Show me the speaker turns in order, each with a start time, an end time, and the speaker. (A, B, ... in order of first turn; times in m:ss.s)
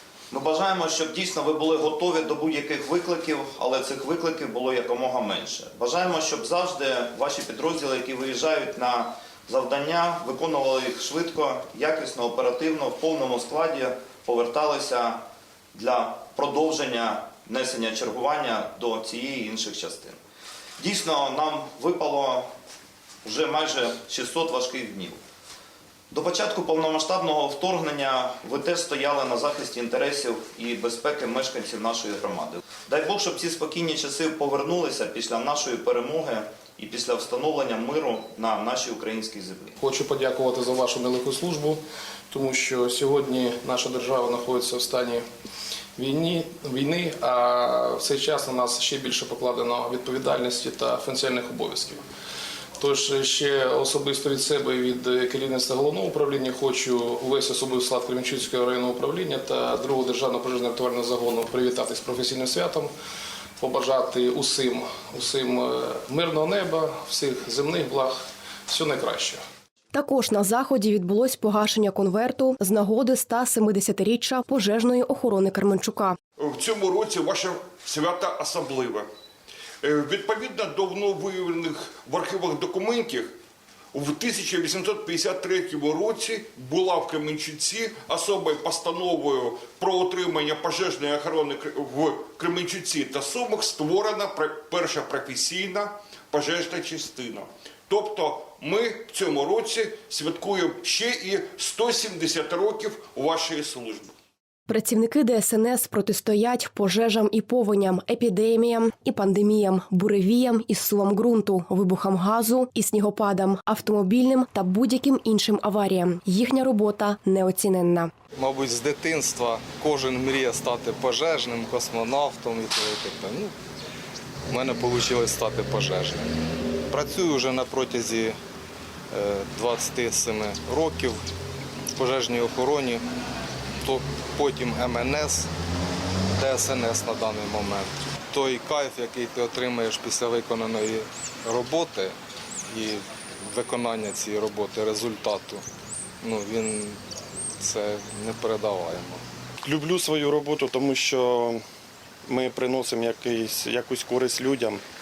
0:00.3-0:15.2 A
0:15.7-0:20.2 A
0:20.8-0:22.5 A
0:23.2-0:25.2 A
0:26.1-0:39.8 A
0:39.8-0:45.2 B
0:46.0-0:52.0 B
0:52.8-1:02.9 B
1:03.6-1:09.4 B
1:09.9-1:16.2 C
1:16.4-1:19.1 D
1:19.8-1:23.4 D
1:23.9-1:44.1 D
1:44.7-1:58.1 C
1:58.4-2:03.6 E
2:04.5-2:06.3 E
2:06.9-2:08.4 E
2:09.1-2:11.2 E
2:12.0-2:13.0 E
2:13.8-2:15.5 E
2:16.4-2:22.2 E
2:22.7-2:25.6 E
2:26.2-2:27.0 E
2:27.6-2:29.2 E
2:29.6-2:31.6 F
2:32.3-2:34.8 F